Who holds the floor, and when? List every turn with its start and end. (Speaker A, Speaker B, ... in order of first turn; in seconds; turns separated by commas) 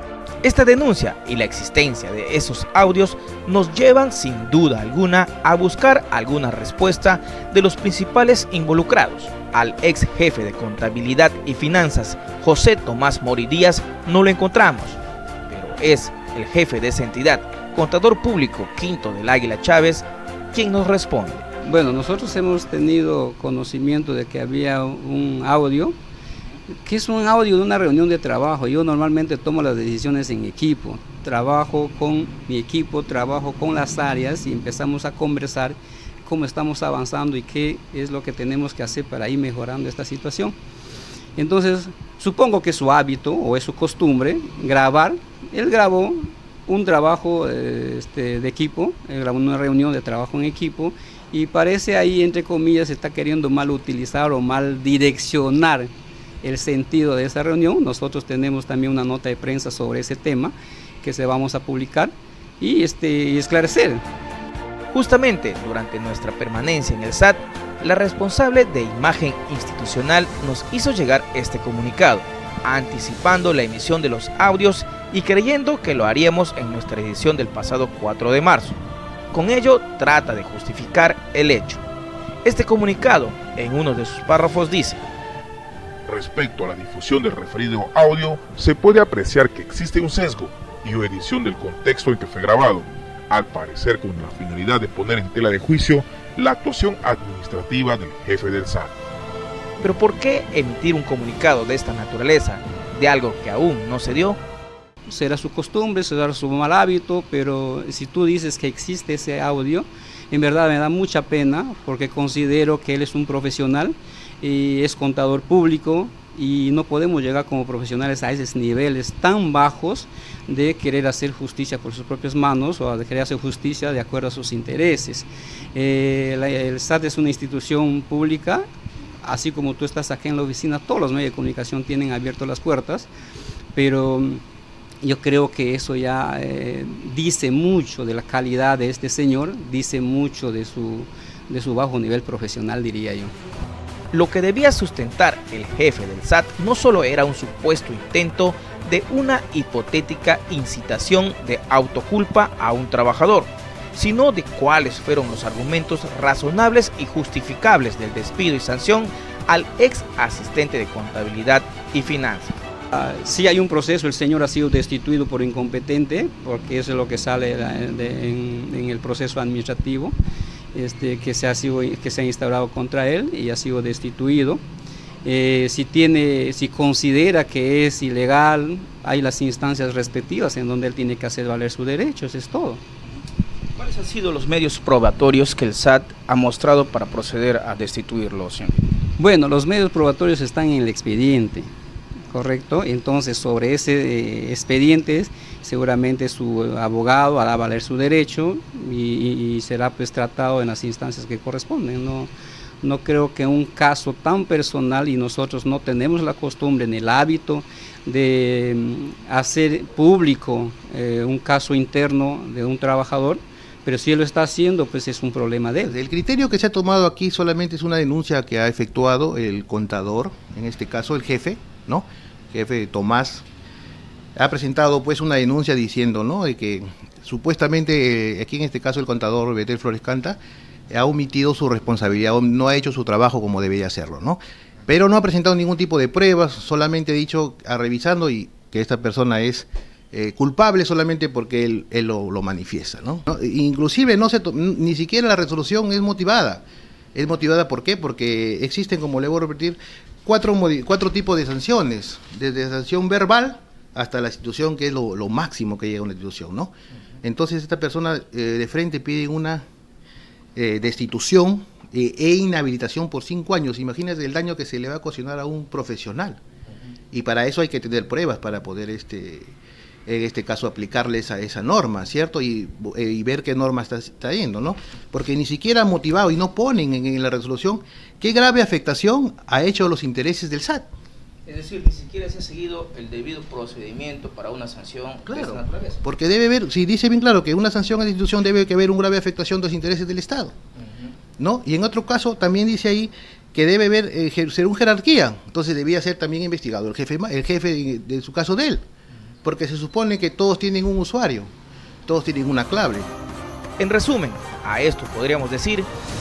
Speaker A: 0.4-21.4, Speaker B: 21.6-25.9, Speaker B: 26.8-40.5, Speaker B: 41.4-55.9, Speaker B: 56.4-64.0, Speaker A: 64.9-78.8, Speaker A: 79.3-81.8, Speaker A: 82.4-85.0, Speaker C: 86.0-98.9, Speaker A: 99.8-104.4, Speaker B: 105.1-128.6, Speaker B: 129.2-133.1, Speaker B: 133.7-134.4, Speaker B: 135.0-143.3, Speaker A: 144.1-162.6, Speaker B: 162.9-170.1, Speaker B: 170.7-174.6, Speaker B: 175.2-182.8, Speaker A: 183.8-188.8, Speaker B: 189.2-191.7, Speaker B: 192.3-202.3, Speaker B: 202.8-215.9, Speaker D: 215.9-223.4, Speaker D: 224.3-230.4, Speaker D: 230.9-246.6, Speaker D: 247.1-259.6, Speaker D: 260.6-266.4, Speaker D: 267.1-269.5, Speaker D: 270.1-280.9, Speaker A: 281.4-286.0, Speaker D: 285.2-290.6, Speaker A: 290.8-291.1, Speaker D: 291.4-298.8, Speaker D: 299.4-301.5, Speaker D: 302.1-303.1, Speaker A: 303.8-305.9